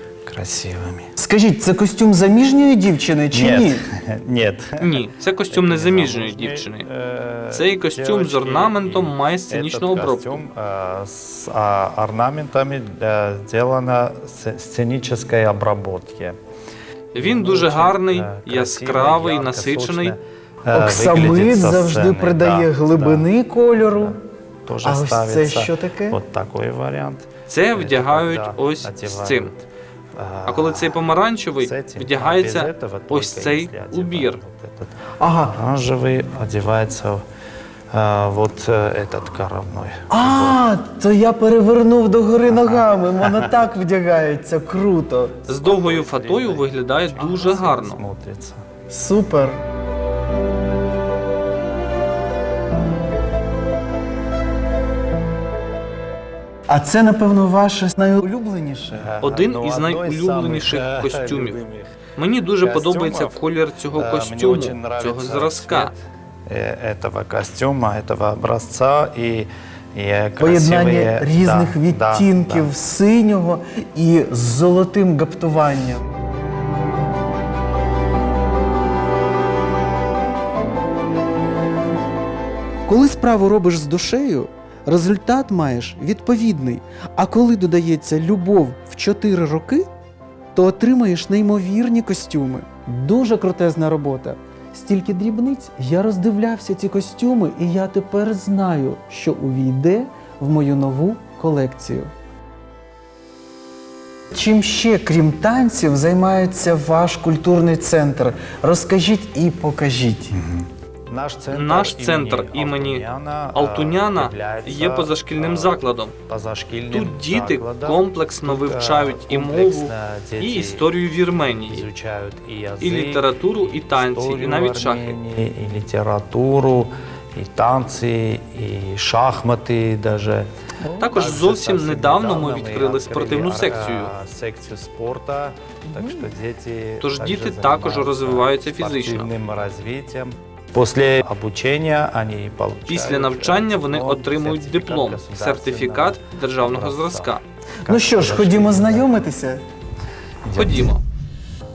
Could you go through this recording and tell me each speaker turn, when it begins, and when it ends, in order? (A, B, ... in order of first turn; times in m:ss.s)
0:00.3-0:01.1 A
0:01.2-0:03.8 B
0:03.3-0:16.4 A
0:04.8-0:06.9 C
0:07.5-0:10.4 C
0:17.1-0:20.2 C
0:17.2-0:23.3 A
0:20.7-0:24.2 B
0:24.7-0:29.6 A
0:24.8-0:26.2 B
0:27.5-0:29.5 C
0:30.2-0:31.0 A
0:30.5-0:34.4 C
0:31.6-0:37.2 A
0:35.2-0:35.6 B
0:37.9-0:40.6 A
0:40.1-0:45.4 B
0:42.5-0:43.5 A
0:45.5-0:48.0 C
0:45.5-0:48.6 A
0:48.9-0:49.6 B
0:56.7-0:59.1 B
0:58.9-1:01.7 A
0:59.2-1:01.6 C
1:02.2-1:05.9 C
1:02.6-1:03.4 A
1:03.9-1:12.7 A
1:10.4-1:16.0 B
1:22.9-1:29.9 B
1:30.6-1:42.1 B
1:44.3-1:50.4 B
1:50.3-2:00.9 A
1:51.5-1:56.1 C
1:56.9-2:01.9 C
2:01.6-2:29.1 A
2:02.8-2:05.2 C
2:11.0-2:14.1 C
2:15.8-2:16.3 B
2:17.0-2:19.3 C
2:22.9-2:27.4 C
2:27.9-2:29.6 B
2:30.5-2:30.9 A
2:30.5-2:31.0 C